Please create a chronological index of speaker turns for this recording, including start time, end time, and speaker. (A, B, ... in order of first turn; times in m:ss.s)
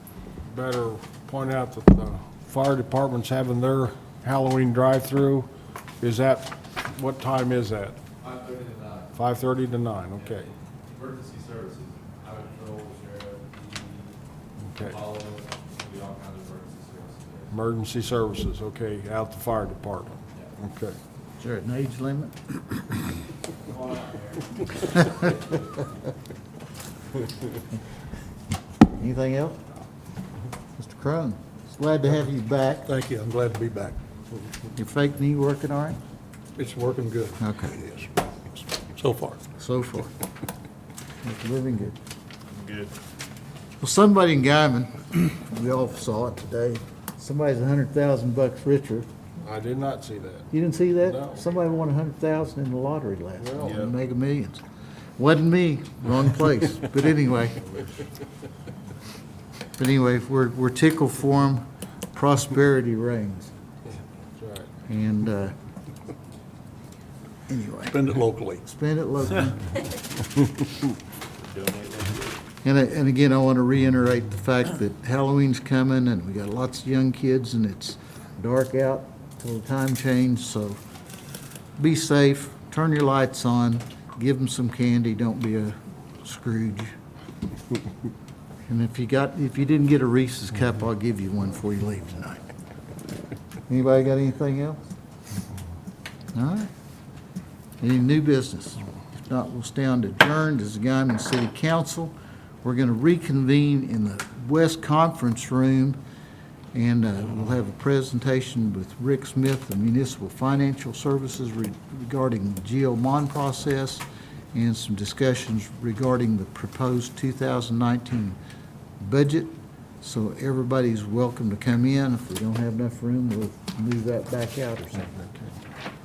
0:00.4-0:05.5 A
0:06.0-0:08.0 A
0:08.2-0:09.0 B
0:09.1-0:10.5 A
0:10.4-0:14.1 B
0:14.7-0:15.0 A
0:14.9-0:17.5 B
0:17.5-0:21.0 A
0:21.4-0:22.9 C
0:23.7-0:25.2 B
0:28.9-0:29.6 C
0:30.8-0:32.9 C
0:32.9-0:34.0 D
0:34.8-0:36.0 C
0:36.6-0:38.1 D
0:37.4-0:37.8 C
0:38.8-0:39.4 D
0:39.6-0:40.1 C
0:41.2-0:42.0 C
0:43.8-0:49.1 C
0:49.4-0:50.5 A
0:50.5-0:54.6 C
0:51.1-0:51.4 A
0:53.4-0:53.9 A
0:55.2-0:57.9 C
0:59.8-1:03.5 C
1:03.9-1:04.7 A
1:04.8-1:05.6 C
1:07.5-1:08.0 C
1:07.9-1:08.6 D
1:08.6-1:09.7 C
1:11.6-1:12.2 B
1:12.6-1:20.8 C
1:21.8-1:26.9 C
1:28.7-1:32.4 C
1:33.7-1:34.8 C
1:36.3-1:36.7 C
1:37.8-1:46.0 C
1:46.7-1:58.4 C
1:59.0-2:05.4 C